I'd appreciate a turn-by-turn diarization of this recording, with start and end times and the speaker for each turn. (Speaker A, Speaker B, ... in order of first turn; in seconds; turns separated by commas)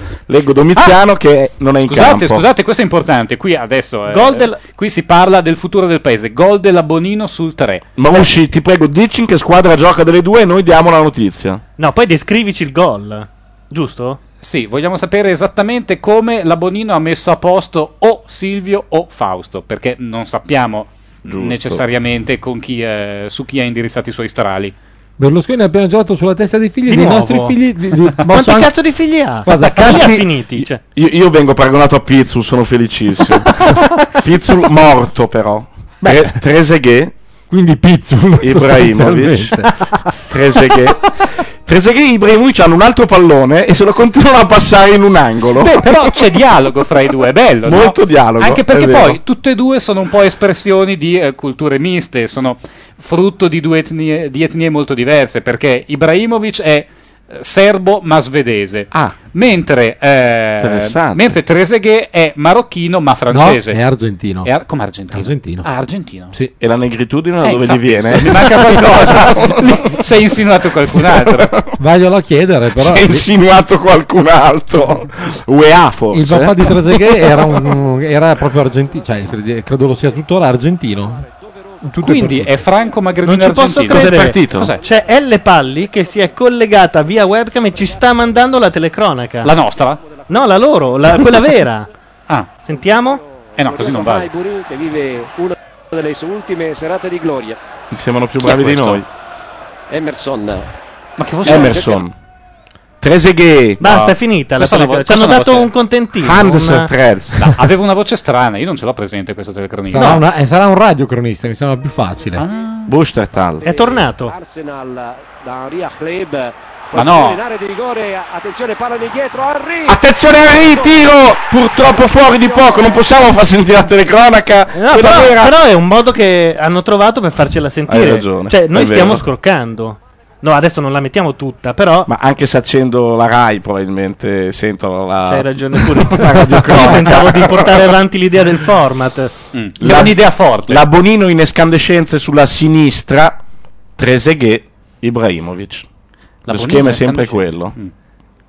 Speaker A: 0.3-2.4, Speaker B: 1.8-7.9, Speaker C: 4.1-4.6, Speaker A: 8.0-11.6, Speaker C: 11.8-14.2, Speaker B: 14.4-24.7, Speaker A: 21.3-21.8, Speaker D: 25.2-28.7, Speaker C: 26.9-27.6, Speaker C: 28.3-30.8, Speaker D: 29.4-30.3, Speaker A: 30.9-37.1, Speaker D: 36.0-36.4, Speaker D: 37.5-40.1, Speaker A: 38.4-39.6, Speaker A: 40.3-46.0, Speaker B: 45.5-63.8, Speaker A: 47.6-49.2, Speaker A: 60.6-61.2, Speaker D: 63.3-64.5, Speaker B: 64.4-66.3, Speaker D: 65.1-65.7, Speaker A: 66.6-69.9, Speaker B: 67.4-71.5, Speaker A: 71.0-71.7, Speaker D: 71.8-73.2, Speaker A: 72.8-77.4, Speaker D: 76.1-81.2, Speaker E: 78.8-79.1, Speaker E: 79.9-80.2, Speaker E: 81.0-83.2, Speaker D: 81.8-82.5, Speaker B: 82.0-84.8, Speaker C: 83.2-89.5, Speaker A: 83.9-84.7, Speaker E: 84.7-86.4, Speaker E: 87.4-88.7, Speaker B: 89.4-90.0, Speaker E: 89.6-90.9, Speaker C: 90.3-91.9, Speaker E: 92.6-97.6, Speaker C: 92.7-93.2, Speaker B: 93.5-94.3, Speaker A: 97.9-99.1, Speaker B: 98.4-99.0, Speaker E: 99.9-100.7, Speaker B: 101.2-102.0, Speaker A: 101.4-102.1, Speaker E: 101.5-102.0, Speaker A: 103.0-103.9, Speaker C: 103.8-106.9, Speaker B: 103.9-105.7, Speaker A: 106.2-107.5, Speaker B: 107.3-110.2, Speaker D: 109.9-112.4, Speaker B: 112.4-112.9, Speaker A: 112.9-113.7, Speaker E: 113.6-121.1, Speaker C: 113.6-114.3, Speaker B: 116.9-117.4, Speaker A: 119.9-125.5, Speaker E: 121.8-123.1, Speaker C: 124.7-132.1, Speaker A: 127.9-129.2, Speaker A: 132.1-137.9, Speaker C: 135.2-139.3, Speaker B: 139.5-140.8, Speaker A: 139.8-143.4, Speaker A: 144.0-145.8, Speaker B: 146.4-147.9, Speaker A: 146.5-147.7